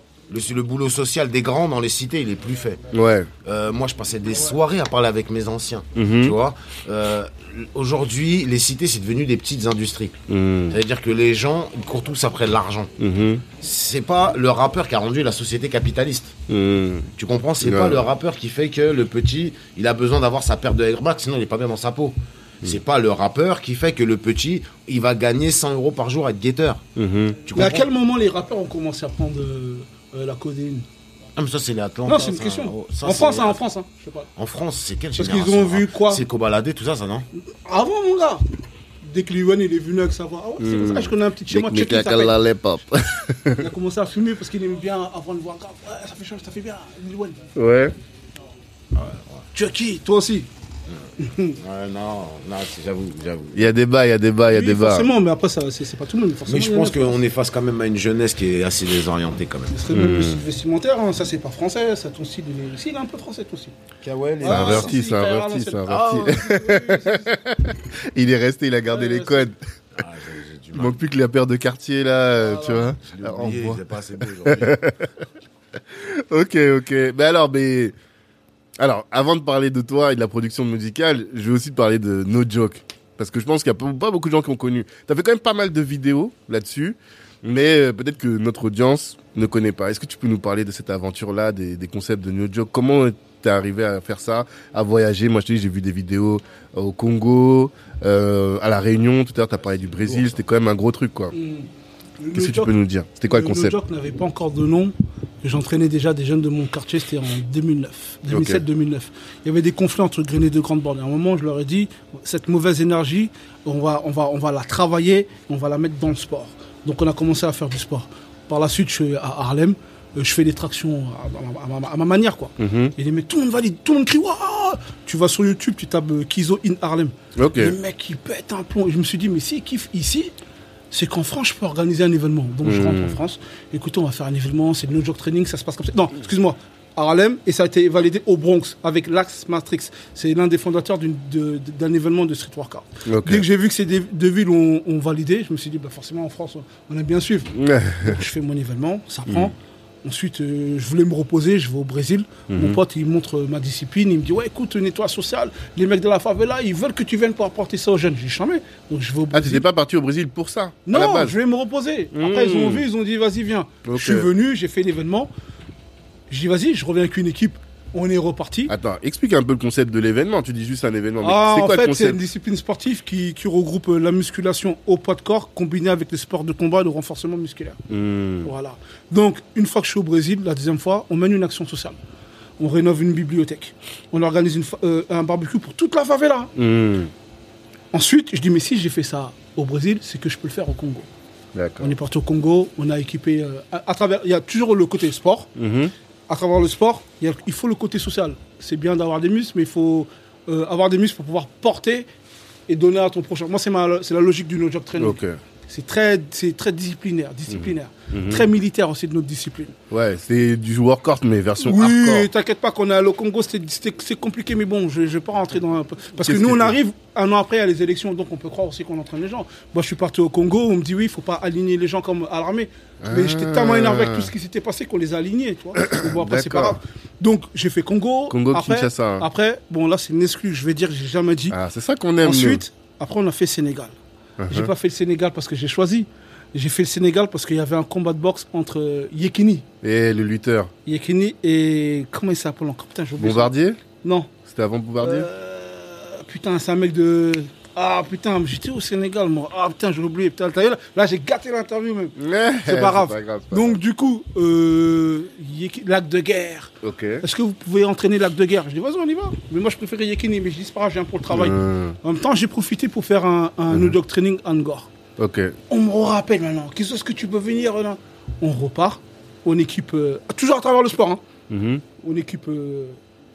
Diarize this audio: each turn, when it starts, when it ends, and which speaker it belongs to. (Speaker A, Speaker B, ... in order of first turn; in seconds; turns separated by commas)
Speaker A: 0.3-2.8, Speaker B: 2.9-3.3, Speaker A: 3.4-12.9, Speaker B: 6.0-6.4, Speaker B: 10.3-10.8, Speaker B: 13.0-13.4, Speaker A: 13.5-16.3, Speaker B: 16.5-17.1, Speaker A: 17.1-26.8, Speaker B: 17.6-18.0, Speaker B: 27.0-27.4, Speaker A: 27.5-27.9, Speaker C: 27.5-30.9, Speaker A: 31.4-33.6, Speaker C: 32.1-34.3, Speaker A: 34.4-37.3, Speaker C: 35.2-36.2, Speaker C: 37.5-38.5, Speaker C: 39.0-42.4, Speaker B: 40.6-43.6, Speaker A: 41.7-42.2, Speaker C: 43.5-47.4, Speaker B: 47.6-48.0, Speaker A: 48.9-49.5, Speaker C: 49.5-50.5, Speaker C: 51.2-51.6, Speaker A: 51.6-53.7, Speaker B: 53.5-55.1, Speaker C: 54.5-57.2, Speaker A: 56.5-59.8, Speaker C: 59.7-63.7, Speaker B: 59.9-60.4, Speaker A: 64.0-65.0, Speaker C: 64.4-67.4, Speaker B: 64.5-69.6, Speaker A: 65.9-66.5, Speaker C: 68.9-69.5, Speaker A: 70.0-71.0, Speaker B: 70.8-73.8, Speaker A: 72.5-74.8, Speaker B: 74.4-75.1, Speaker B: 75.9-78.0, Speaker B: 78.8-101.3, Speaker C: 101.3-101.7, Speaker C: 102.2-102.7, Speaker B: 102.3-103.8, Speaker C: 103.2-130.3, Speaker B: 108.3-108.6, Speaker B: 122.6-122.9, Speaker B: 127.4-127.8, Speaker C: 130.9-159.7, Speaker B: 132.7-133.2, Speaker B: 143.1-143.4, Speaker B: 147.6-148.2, Speaker B: 152.5-152.8, Speaker B: 159.3-161.4, Speaker C: 160.9-165.3, Speaker B: 162.1-162.8, Speaker B: 163.8-164.3, Speaker C: 166.3-168.7, Speaker B: 168.7-172.2, Speaker C: 171.2-177.8, Speaker B: 177.9-178.5, Speaker C: 178.4-182.0, Speaker C: 182.6-186.5, Speaker B: 186.6-187.1, Speaker C: 187.9-191.1, Speaker B: 191.6-191.9, Speaker C: 191.8-195.5, Speaker B: 195.6-195.9, Speaker C: 196.3-202.1, Speaker C: 202.7-209.8, Speaker B: 205.0-205.4, Speaker B: 207.5-208.5, Speaker B: 209.9-212.3, Speaker C: 211.6-231.6, Speaker B: 216.2-216.8, Speaker B: 223.0-224.3, Speaker B: 225.8-226.8, Speaker B: 228.3-229.3, Speaker B: 231.5-232.6, Speaker C: 232.2-233.9, Speaker B: 234.4-234.7, Speaker C: 234.5-239.7, Speaker B: 239.8-240.7, Speaker C: 240.9-244.3, Speaker B: 243.2-243.8, Speaker B: 244.4-245.3, Speaker C: 245.0-264.9, Speaker B: 252.2-253.8, Speaker B: 256.8-257.2, Speaker B: 261.3-262.0, Speaker B: 265.2-265.6, Speaker C: 265.7-271.2, Speaker B: 271.5-271.8, Speaker C: 272.0-273.0